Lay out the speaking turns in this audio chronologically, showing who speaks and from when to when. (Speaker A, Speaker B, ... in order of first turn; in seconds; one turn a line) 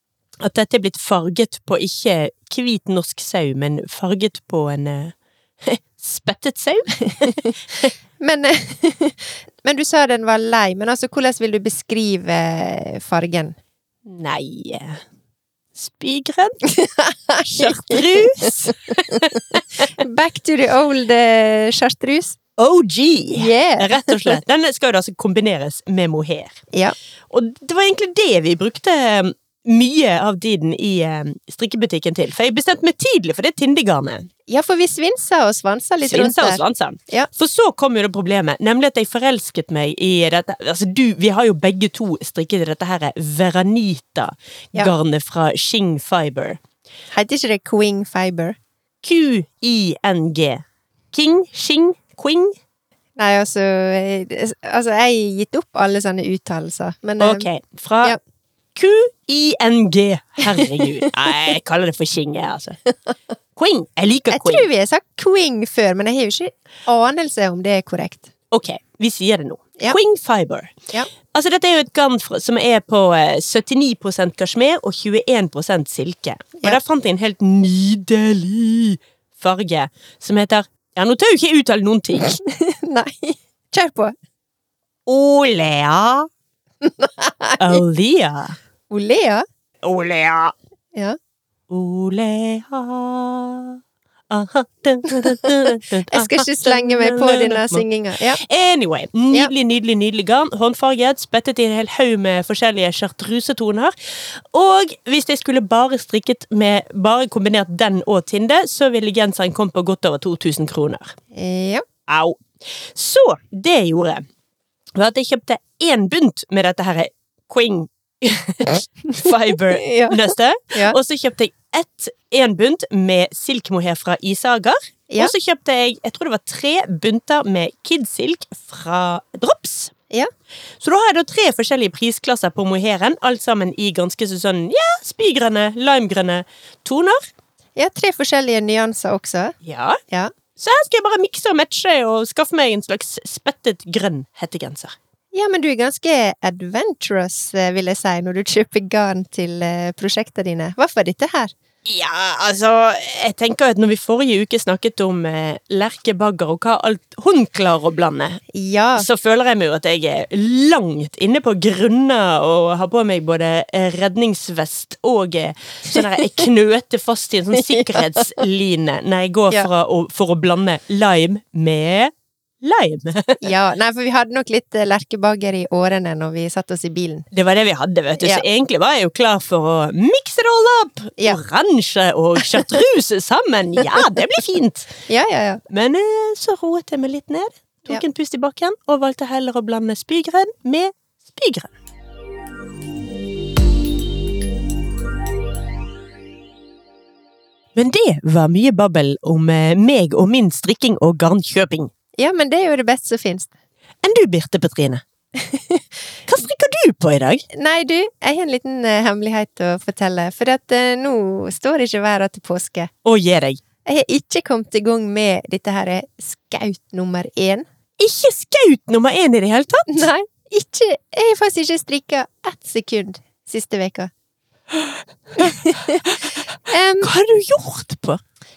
Speaker A: 0.4-7.9
Speaker B: 7.1-13.6
Speaker A: 14.1-15.0
Speaker A: 15.8-16.6
Speaker B: 16.7-22.4
Speaker A: 17.6-19.9
Speaker A: 22.6-26.6
Speaker B: 23.3-24.4
Speaker A: 27.3-34.3
Speaker B: 34.5-37.3
Speaker A: 36.0-46.6
Speaker B: 47.1-48.6
Speaker A: 49.0-52.5
Speaker B: 53.2-57.5
Speaker A: 57.2-58.2
Speaker A: 58.8-62.8
Speaker B: 60.5-61.1
Speaker A: 63.6-64.7
Speaker B: 64.3-68.3
Speaker A: 68.5-70.8
Speaker A: 71.3-82.3
Speaker B: 82.2-84.1
Speaker A: 85.1-86.3
Speaker B: 86.8-87.8
Speaker A: 87.6-88.6
Speaker B: 88.9-89.5
Speaker A: 89.8-90.5
Speaker A: 91.7-97.8
Speaker B: 95.2-98.4
Speaker A: 98.4-111.1
Speaker B: 111.3-111.8
Speaker A: 112.1-114.2
Speaker A: 115.0-129.9
Speaker B: 119.8-120.2
Speaker A: 130.8-137.2
Speaker B: 137.8-139.6
Speaker A: 139.7-140.0
Speaker A: 140.6-144.9
Speaker B: 145.3-151.5
Speaker A: 151.8-158.4
Speaker B: 158.5-159.1
Speaker A: 159.0-173.5
Speaker B: 167.6-168.4
Speaker B: 173.4-177.3
Speaker A: 177.3-184.9
Speaker B: 178.2-178.4
Speaker B: 185.1-185.6
Speaker A: 185.7-191.7
Speaker A: 197.8-201.9
Speaker B: 202.2-203.5
Speaker A: 204.0-205.0
Speaker B: 205.3-205.9
Speaker A: 206.3-207.4
Speaker B: 207.5-212.9
Speaker A: 213.0-213.6
Speaker B: 213.8-217.7
Speaker A: 218.0-220.1
Speaker B: 219.9-224.1
Speaker B: 225.4-227.1
Speaker A: 226.0-226.4
Speaker A: 227.0-228.2